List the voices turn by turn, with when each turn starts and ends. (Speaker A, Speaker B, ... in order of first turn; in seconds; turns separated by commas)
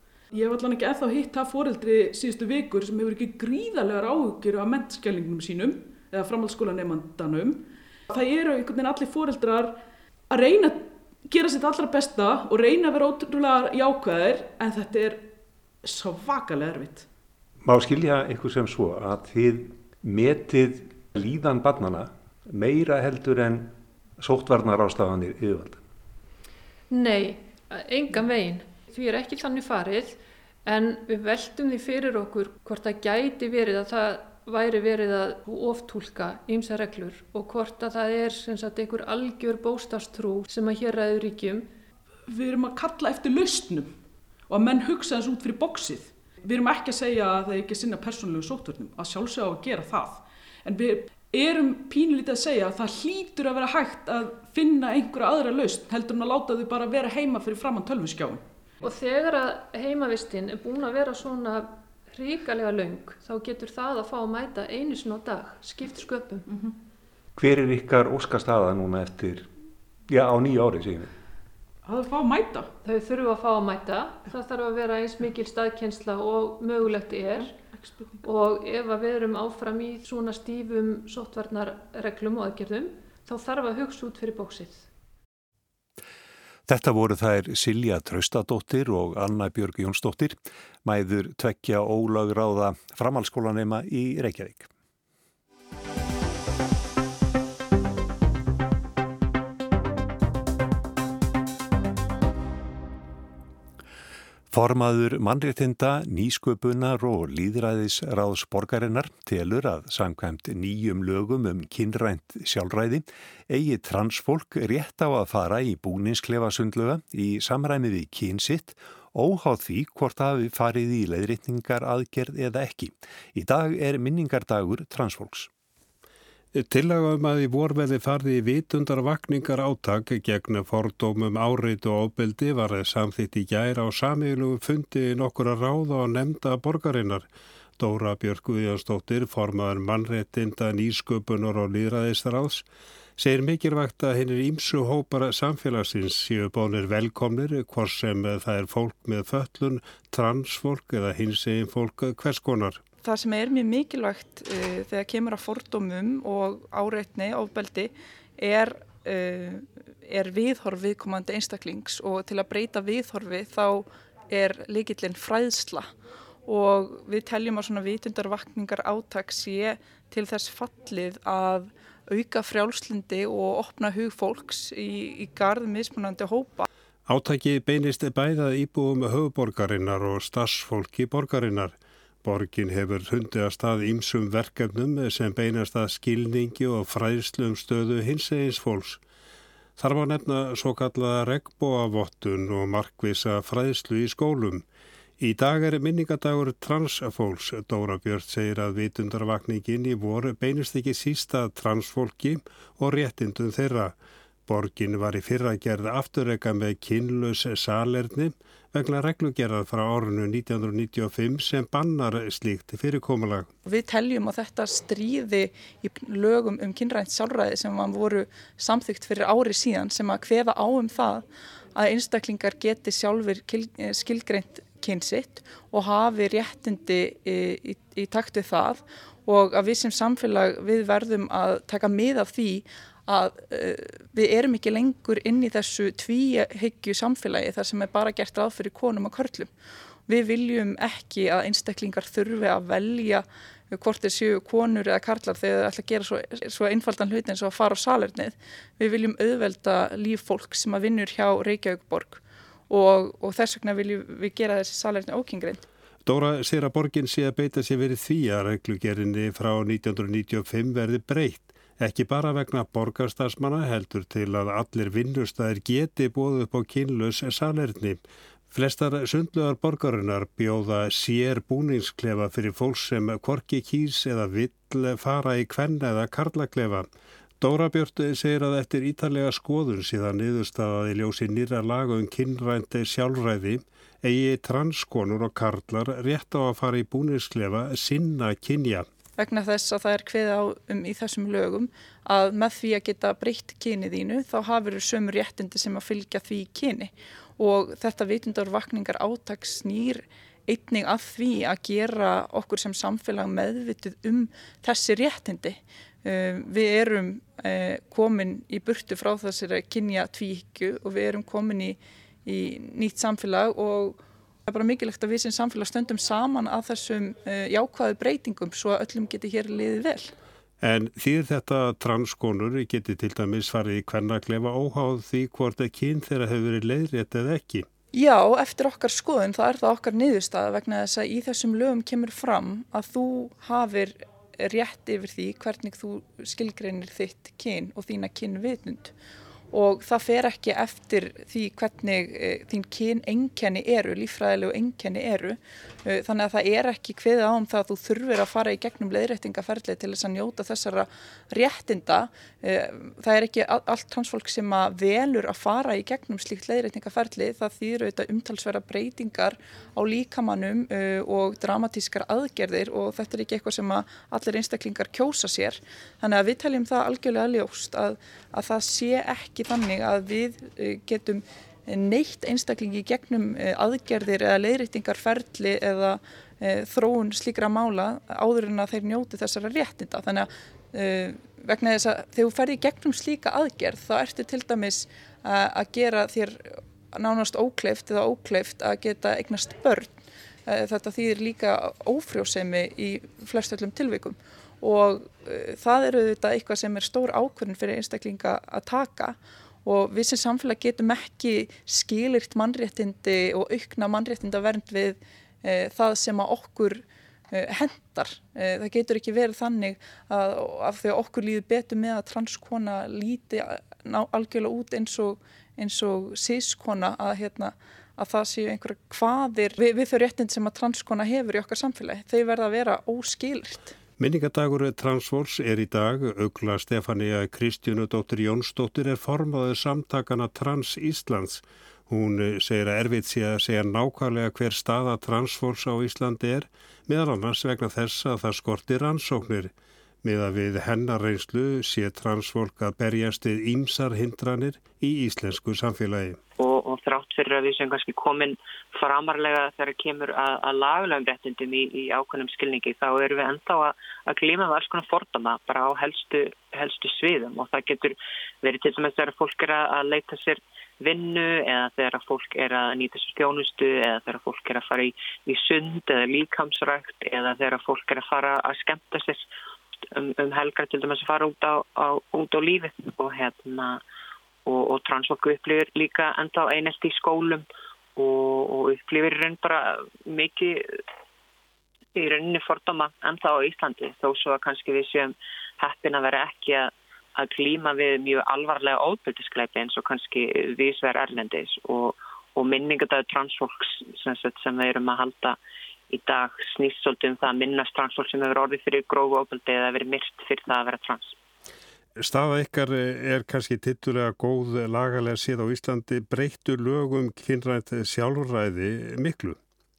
Speaker A: 0.3-15.3, Speaker A: 15.8-17.1, Speaker B: 17.6-25.8, Speaker C: 26.9-41.7, Speaker A: 42.3-43.9, Speaker A: 44.5-58.4, Speaker C: 58.8-66.5, Speaker B: 67.4-69.5, Speaker B: 70.1-71.1, Speaker A: 71.8-72.7, Speaker C: 72.8-77.5, Speaker A: 77.4-78.2, Speaker C: 78.2-84.9, Speaker B: 86.7-94.7, Speaker B: 104.5-125.5, Speaker D: 126.5-137.3, Speaker D: 137.8-142.7, Speaker D: 143.2-152.8, Speaker E: 153.0-165.9, Speaker E: 166.5-176.7, Speaker D: 177.1-189.0, Speaker D: 189.8-194.7, Speaker D: 195.2-203.9, Speaker D: 204.5-213.5, Speaker E: 213.7-239.5, Speaker E: 240.1-255.6, Speaker D: 256.1-276.9, Speaker D: 277.4-288.9, Speaker E: 289.2-320.1, Speaker D: 320.6-327.7, Speaker E: 327.9-338.9, Speaker E: 339.5-390.0, Speaker E: 390.5-423.8, Speaker D: 424.0-446.2, Speaker F: 446.4-469.3, Speaker F: 469.9-473.8, Speaker F: 474.5-480.8, Speaker F: 481.9-495.4, Speaker F: 495.9-501.2, Speaker D: 502.0-509.4